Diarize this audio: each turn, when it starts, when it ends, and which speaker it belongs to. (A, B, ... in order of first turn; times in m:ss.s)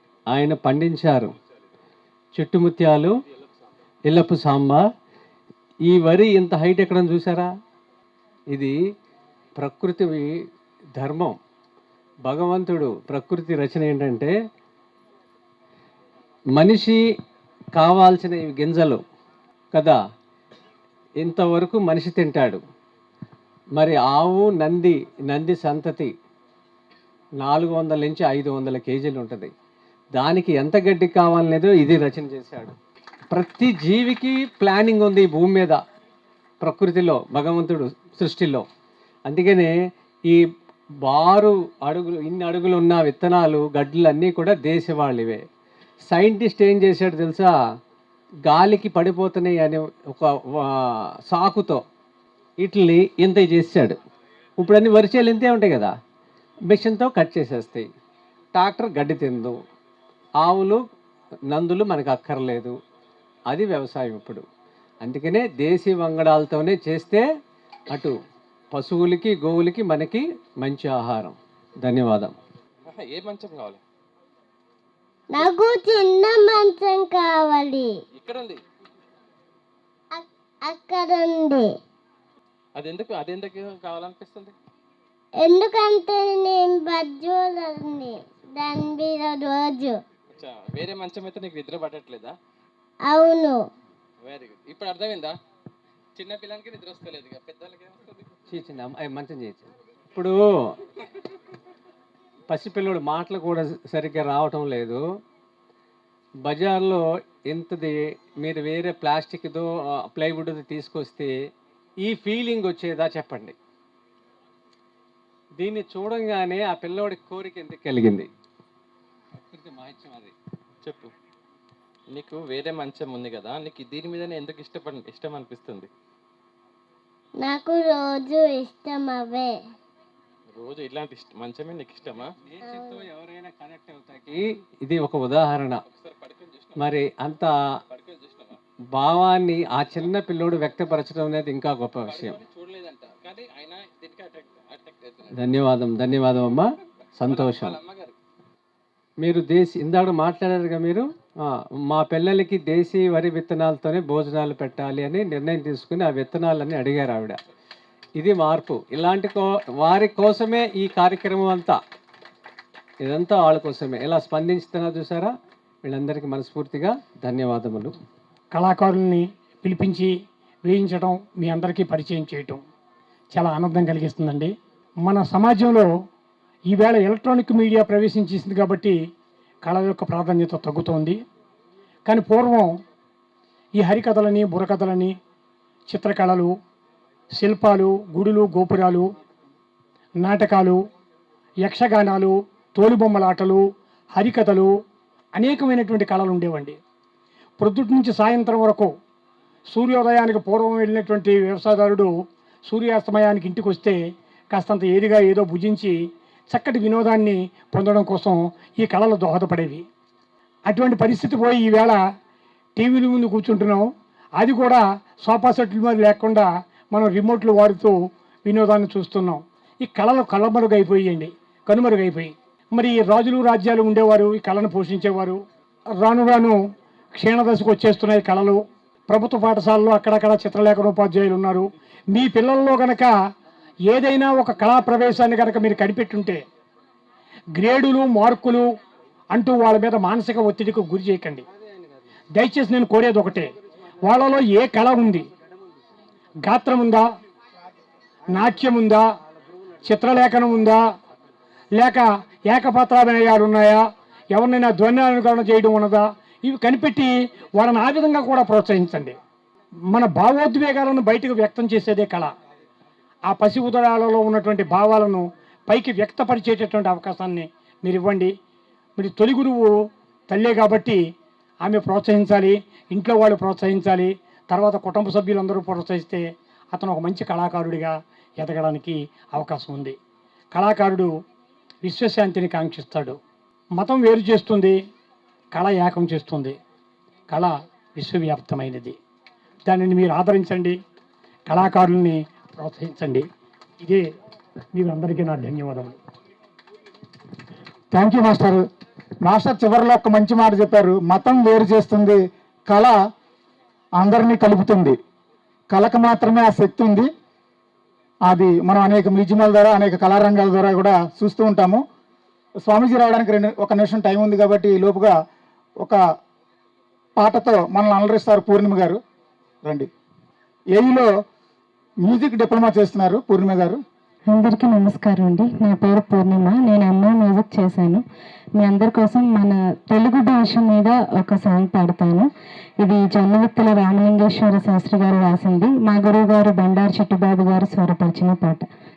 0:00.3-0:01.3 A
0:02.3-0:03.1 A
0:04.1-0:04.8 A
0:05.9-0:07.5 A
0:09.6-0:10.2 A
0:11.0-0:11.4 A
0:12.3-0:14.3 A
0:16.6-0:17.0 A
0:17.8-0:19.0 A
0:19.7-0:20.0 A
0:21.2-0:22.6 A
0:23.8-0:26.1 A
0:27.4-0:29.5 A
0:30.2-0:32.7 A
0:33.3-0:35.8 A
0:36.6-0:38.6 A
0:39.3-0:39.7 A
0:41.0-0:45.4 A
0:46.1-0:47.5 A
0:48.5-0:50.3 A
0:51.3-0:51.8 A
0:52.6-0:54.0 A
0:54.6-0:55.9 A
0:56.7-0:57.9 A
0:58.5-0:59.6 A
1:00.4-1:00.8 A
1:01.5-1:02.7 A
1:03.5-1:04.4 A
1:05.0-1:07.2 A
1:08.7-1:12.4 A
1:12.9-1:13.8 B
1:15.3-1:17.9 C
1:18.2-1:18.6 B
1:20.2-1:21.7 C
1:22.8-1:24.5 B
1:25.4-1:30.0 C
1:30.4-1:32.3 B
1:33.1-1:33.6 C
1:34.2-1:35.3 B
1:36.2-1:38.2 B
1:38.5-1:40.3 A
1:42.5-1:45.0 A
1:46.4-1:51.3 A
1:52.0-1:53.6 A
1:55.6-1:58.3 A
1:59.4-2:00.3 A
2:00.8-2:01.1 B
2:02.1-2:05.9 B
2:07.4-2:09.5 C
2:10.6-2:12.3 B
2:12.5-2:15.8 A
2:15.9-2:16.8 B
2:16.8-2:17.5 A
2:17.9-2:18.5 B
2:18.9-2:22.4 A
2:22.1-2:25.3 B
2:25.3-2:27.8 A
2:27.3-2:28.1 B
2:29.2-2:37.4 A
2:38.2-2:41.8 A
2:43.0-2:45.3 A
2:45.8-2:47.9 A
2:48.5-2:50.1 D
2:50.6-2:52.6 D
2:53.3-2:54.5 D
2:55.0-2:55.9 D
2:56.7-2:59.0 D
2:59.6-3:01.2 D
3:02.1-3:02.7 D
3:03.8-3:05.1 D
3:05.9-3:06.5 D
3:07.4-3:09.1 D
3:10.2-3:10.8 D
3:11.6-3:13.6 D
3:14.1-3:14.7 D
3:15.4-3:16.8 D
3:17.6-3:18.9 D
3:19.7-3:22.1 D
3:22.7-3:24.0 D
3:24.5-3:26.0 D
3:26.5-3:29.8 D
3:30.7-3:32.0 D
3:32.8-3:33.8 D
3:34.4-3:37.9 D
3:38.4-3:45.4 D
3:46.0-3:46.6 D
3:47.1-3:53.1 D
3:53.9-3:56.4 D
3:57.6-3:58.6 D
3:59.3-4:01.4 D
4:02.3-4:03.5 D
4:04.0-4:05.3 D
4:06.4-4:07.0 D
4:08.3-4:09.0 D
4:09.8-4:10.8 D
4:11.8-4:13.8 D
4:14.3-4:19.2 D
4:19.9-4:22.3 D
4:23.3-4:28.3 D
4:29.0-4:29.7 D
4:30.3-4:31.0 D
4:31.6-4:40.0 D
4:40.5-4:41.1 D
4:41.8-4:43.2 D
4:43.8-4:44.8 D
4:45.5-4:46.6 D
4:47.3-4:49.0 D
4:49.7-4:50.8 D
4:51.5-4:53.2 D
4:54.7-4:56.0 D
4:57.9-4:58.6 E
4:59.2-5:02.2 E
5:02.7-5:02.9 E
5:04.0-5:04.9 E
5:05.7-5:07.1 E
5:08.3-5:11.8 E
5:12.7-5:15.1 E
5:17.2-5:19.0 E
5:20.7-5:21.1 E
5:22.0-5:23.8 E
5:24.3-5:28.0 F
5:28.6-5:32.2 F
5:32.8-5:38.6 F